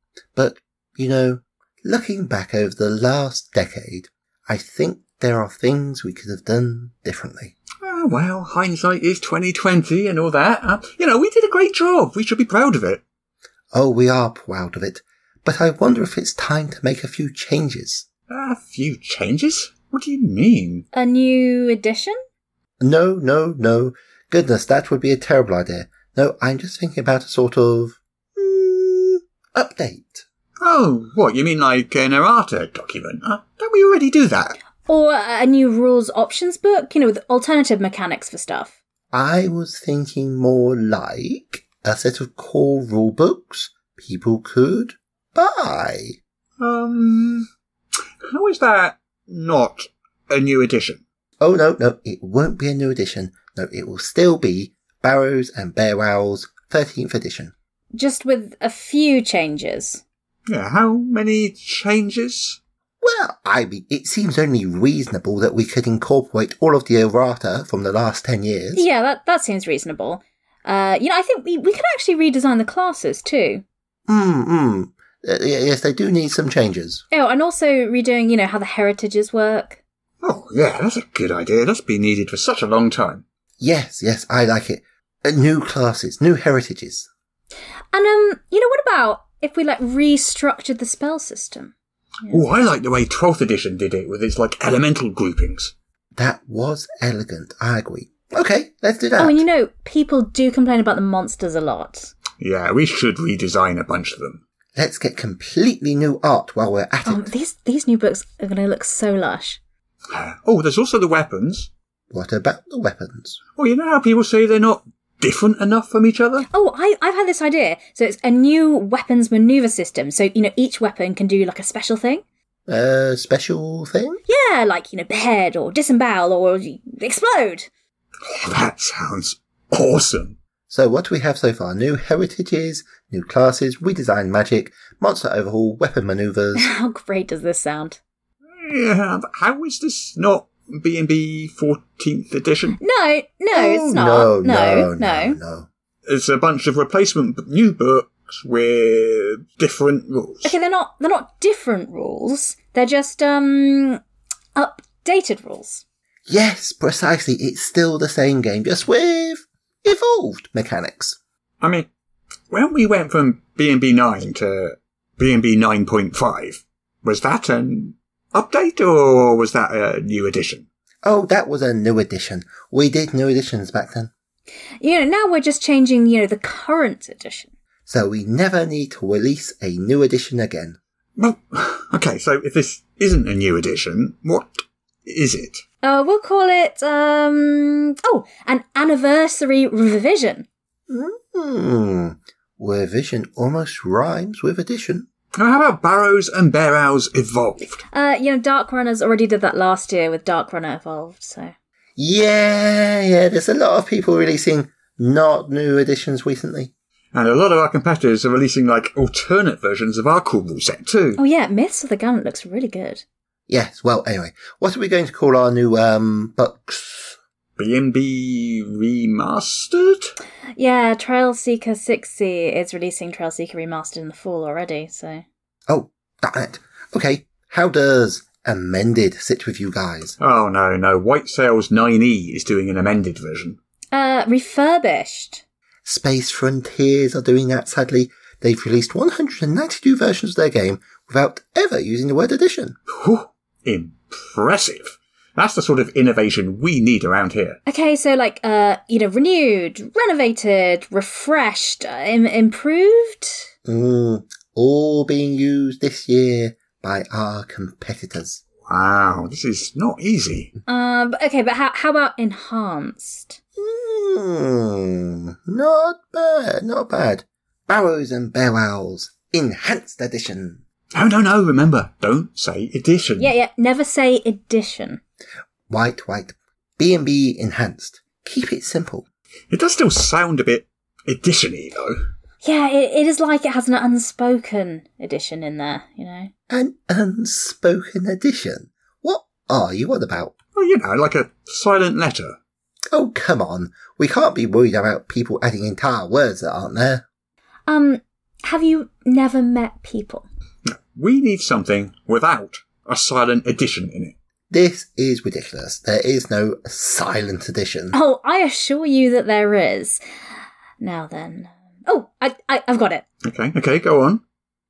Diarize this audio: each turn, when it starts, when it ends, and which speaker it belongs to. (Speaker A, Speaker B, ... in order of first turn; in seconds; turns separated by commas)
Speaker A: 0.3-7.5, Speaker B: 7.8-13.0, Speaker A: 13.7-18.1, Speaker B: 18.3-20.9, Speaker C: 20.9-22.2, Speaker A: 22.8-30.2, Speaker B: 30.6-34.6, Speaker C: 34.9-38.7, Speaker A: 39.1-46.2, Speaker B: 46.6-47.5, Speaker B: 48.3-51.0, Speaker A: 51.4-57.5, Speaker C: 57.9-60.0, Speaker B: 60.5-62.6, Speaker A: 63.0-68.8, Speaker C: 68.8-73.6, Speaker A: 74.1-77.0, Speaker C: 77.1-79.8, Speaker B: 80.2-83.2, Speaker A: 83.6-87.1, Speaker C: 87.9-91.7, Speaker B: 92.3-95.7, Speaker A: 96.2-99.4, Speaker C: 99.2-102.1, Speaker B: 102.4-104.4, Speaker A: 104.8-107.3, Speaker C: 107.0-109.6, Speaker B: 110.1-111.7, Speaker A: 112.1-113.4, Speaker B: 113.6-116.5, Speaker C: 116.5-122.2, Speaker A: 122.7-124.2, Speaker C: 124.3-127.7, Speaker B: 128.3-130.4, Speaker A: 130.7-136.7, Speaker C: 136.6-138.0, Speaker B: 138.6-142.8, Speaker C: 142.8-145.4, Speaker A: 143.6-145.7, Speaker B: 146.1-150.5, Speaker C: 150.4-154.0, Speaker C: 154.6-155.8, Speaker A: 156.3-161.2, Speaker B: 161.6-161.9, Speaker B: 162.5-170.7, Speaker A: 171.1-174.1, Speaker C: 174.8-177.5, Speaker A: 177.9-180.8, Speaker B: 181.2-185.6, Speaker C: 185.8-190.5, Speaker A: 190.9-195.1, Speaker B: 195.3-197.8, Speaker C: 197.9-201.5, Speaker A: 202.0-206.7, Speaker B: 207.1-211.2, Speaker C: 211.2-213.0, Speaker A: 213.5-217.2, Speaker B: 217.6-220.2, Speaker C: 220.6-225.2, Speaker A: 225.7-230.2, Speaker B: 230.2-233.6, Speaker C: 233.9-235.4, Speaker A: 235.9-242.8, Speaker B: 242.9-247.6, Speaker C: 247.7-253.5, Speaker A: 253.7-258.4, Speaker B: 258.6-260.5, Speaker C: 260.7-263.4, Speaker A: 263.6-270.6, Speaker B: 270.9-273.3, Speaker C: 273.2-275.0, Speaker A: 275.7-279.1, Speaker B: 279.5-282.0, Speaker C: 282.4-286.3, Speaker A: 286.5-290.3, Speaker B: 290.6-292.4, Speaker A: 292.9-297.0, Speaker C: 297.7-300.3, Speaker B: 300.6-304.1, Speaker A: 304.5-308.0, Speaker C: 307.9-310.0, Speaker C: 310.8-313.1, Speaker B: 313.2-314.2